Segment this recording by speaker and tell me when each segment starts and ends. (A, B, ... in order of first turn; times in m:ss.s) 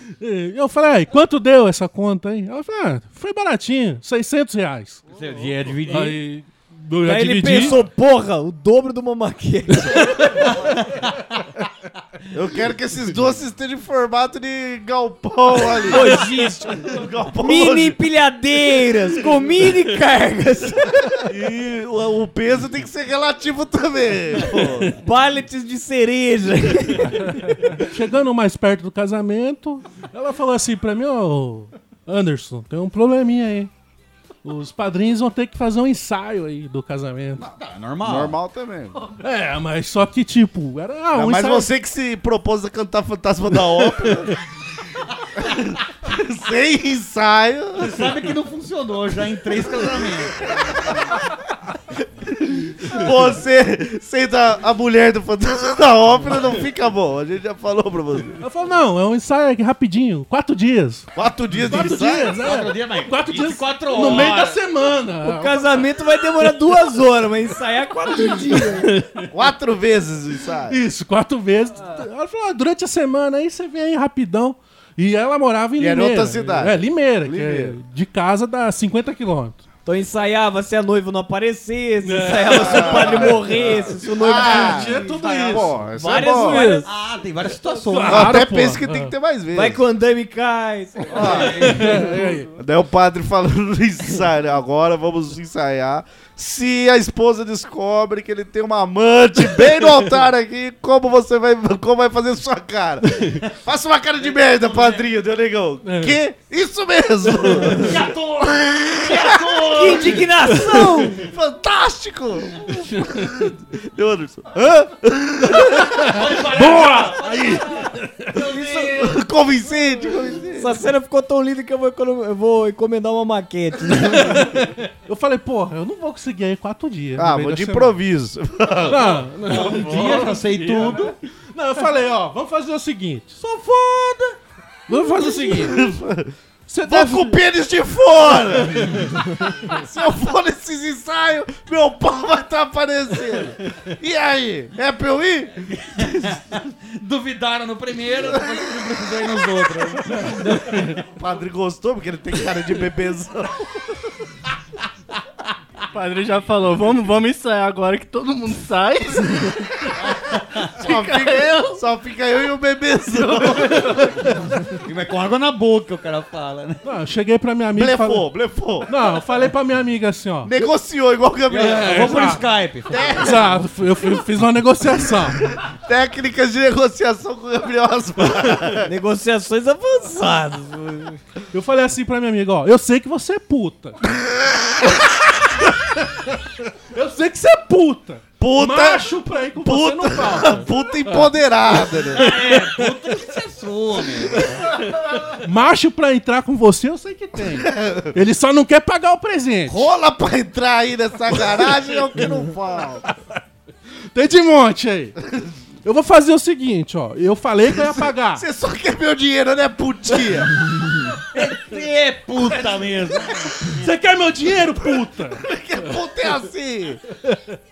0:00.2-0:05.1 A
0:05.1-0:06.2 B
0:05.8-0:07.8 A
0:07.0-0:10.7 C
0:10.5-0:11.3 B
0:12.3-0:16.3 D
0:15.9-0:16.9 C
0:16.8-0:18.0 D
0:17.4-0:21.2 C
0:21.2-0:25.0 D
0:25.0-0:27.6 C
0:27.8-0:33.7 A
0:34.4-0:37.4 A
0:37.4-0:38.4 B
0:38.0-0:39.0 D
0:39.2-0:41.7 A
0:41.1-0:44.4 D
0:45.4-0:48.1 D
0:47.8-0:50.5 B
0:50.4-0:51.2 D
0:52.2-0:58.4 D
0:58.4-1:05.9 A
1:01.2-1:02.4 D
1:02.4-1:04.6 B
1:05.2-1:08.9 C
1:08.3-1:09.2 A
1:09.3-1:10.8 D
1:10.7-1:19.6 A
1:15.8-1:17.8 D
1:19.8-1:25.3 C
1:22.0-1:26.8 A
1:22.4-1:26.7 D
1:25.8-1:26.9 C
1:26.8-1:28.4 B
1:27.8-1:29.1 A
1:28.1-1:29.8 D
1:29.5-1:32.1 C
1:31.1-1:31.8 D
1:31.1-1:32.1 B
1:31.6-1:32.5 A
1:32.6-1:50.0 D
1:44.2-1:45.1 B
1:45.8-1:46.2 A
1:47.6-1:50.2 B
1:49.6-1:51.2 C
1:51.2-1:56.4 D
1:55.9-1:58.6 A
1:56.0-1:59.2 B
1:58.5-2:00.8 D
2:00.6-2:04.6 C
2:04.2-2:08.0 A
2:07.2-2:09.2 D
2:08.8-2:11.2 B
2:08.9-2:13.4 A
2:10.6-2:11.0 E
2:13.4-2:14.4 B
2:14.9-2:15.9 A
2:15.3-2:16.3 D
2:16.7-2:17.4 A
2:16.8-2:26.3 D
2:25.6-2:31.0 B
2:30.5-2:33.8 D
2:35.9-2:39.9 E
2:39.9-2:40.7 B
2:40.8-2:44.3 D
2:40.8-2:41.8 E
2:44.8-2:46.8 B
2:46.8-2:48.3 A
2:47.8-2:48.9 D
2:48.9-2:50.6 A
2:50.4-2:52.4 D
2:51.5-2:53.3 B
2:51.5-2:52.4 A
2:52.9-2:53.8 D
2:53.0-2:55.4 A
2:55.6-2:58.9 D
2:58.8-3:01.2 C
3:01.5-3:04.0 A
3:05.7-3:06.4 A
3:06.9-3:10.7 A
3:08.4-3:12.5 D
3:12.1-3:14.7 B
3:15.3-3:19.9 A
3:17.4-3:18.2 D
3:19.7-3:23.1 D
3:24.1-3:25.2 A
3:25.8-3:28.4 A
3:27.7-3:30.6 D
3:31.3-3:33.9 B
3:33.3-3:35.4 A
3:34.8-3:37.0 D
3:37.3-3:37.5 A